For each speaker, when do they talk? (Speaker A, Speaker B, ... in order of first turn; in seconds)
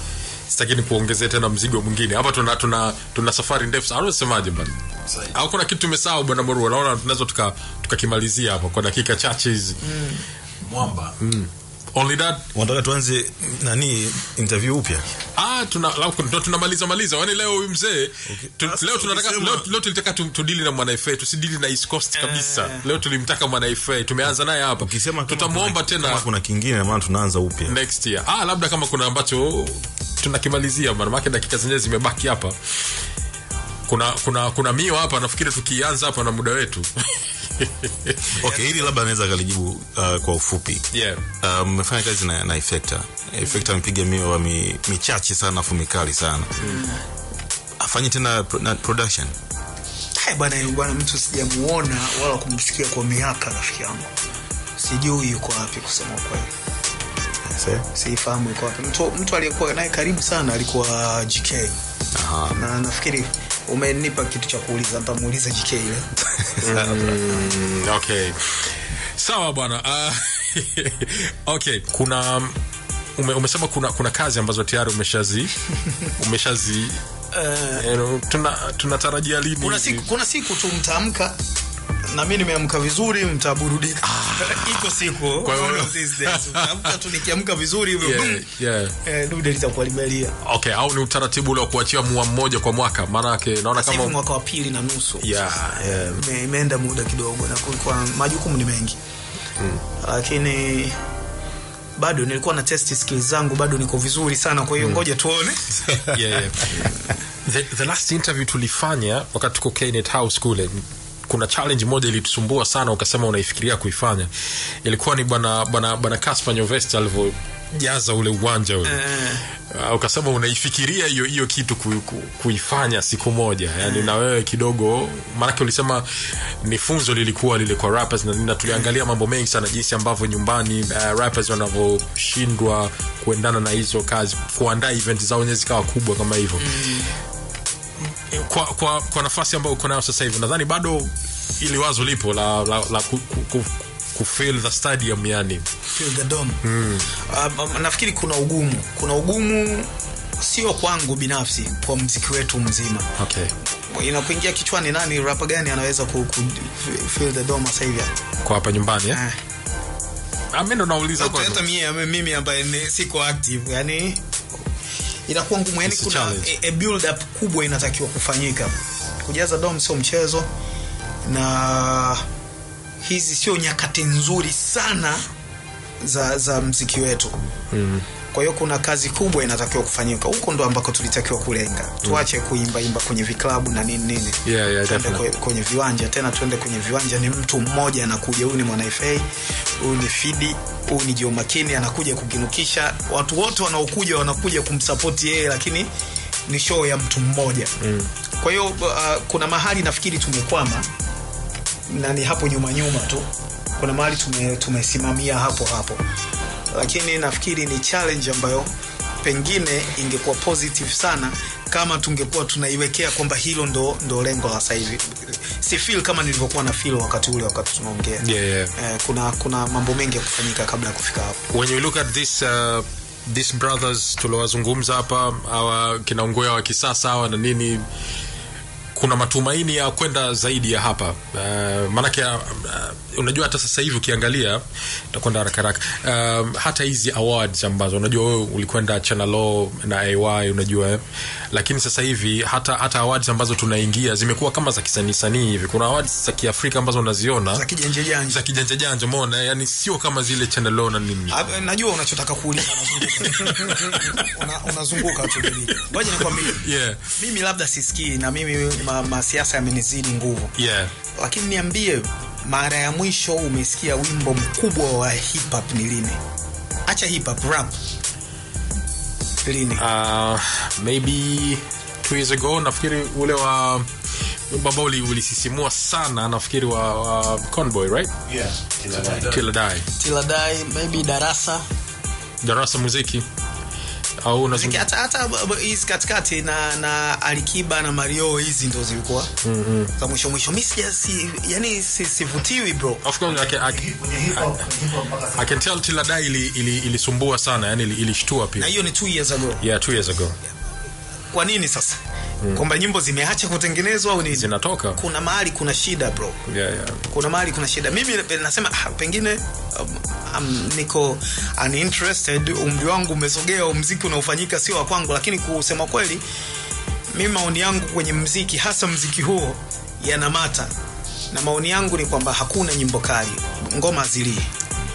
Speaker A: 0.5-10.0, 10.6-12.5, 15.4-26.2, 27.7-32.6, 33.9-38.4, 40.9-41.2, 66.6-72.6, 73.2-75.5, 76.1-77.0, 77.7-80.1, 84.0-87.0, 88.0-89.0, 90.4-94.2, 95.2-96.2, 99.6-99.8, 105.9-106.9, 107.4-114.3, 114.8-126.1, 126.6-136.8, 138.3-145.7, 146.6-147.1, 153.2-153.5, 158.4-159.2, 160.5-161.6, 165.8-166.5, 177.7-178.1, 184.4-185.2, 197.8-198.1, 218.2-218.7, 221.5-227.8, 228.9-247.7, 248.3-251.4, 253.0-254.4, 255.0-257.2, 260.6-260.9, 269.8-273.9, 274.5-278.2, 278.9-279.9, 282.4-283.3, 284.2-284.9, 289.4-289.9, 293.0-294.7, 295.3-298.7, 299.6-300.4, 304.3-305.0, 306.5-307.0
Speaker B: 9.8-10.2, 22.2-22.9, 38.4-39.0, 46.6-47.0, 50.2-54.1, 54.8-56.5, 57.9-61.8, 62.5-66.9, 77.3-77.9, 79.6-81.4, 82.0-88.5, 89.0-90.4, 93.8-99.0, 100.0-101.0, 102.0-105.8, 118.8-119.4, 123.8-124.1, 128.7-128.9, 136.6-137.1, 145.9-146.6, 147.1-153.1, 153.9-158.1, 159.1-159.4, 161.2-164.2, 165.3-170.5, 171.2-172.2, 173.0-175.3, 176.0-177.4, 178.3-195.9, 196.5-197.7, 198.4-200.9, 201.9-206.0, 206.7-218.2, 218.8-221.4, 247.5-248.4, 251.3-256.7, 257.2-260.5, 261.1-266.2, 266.9-267.8, 269.4-269.8, 280.0-281.6, 284.5-289.3, 290.0-293.1, 298.6-299.6, 301.3-302.0, 302.5-306.4, 307.1-316.2, 317.1-320.7, 321.3-324.5
Speaker C: 12.5-15.1, 18.3-19.7, 24.8-27.8, 38.4-40.9, 41.4-46.6, 47.8-49.3, 57.5-57.9, 62.1-62.6, 278.3-279.4, 293.6-295.4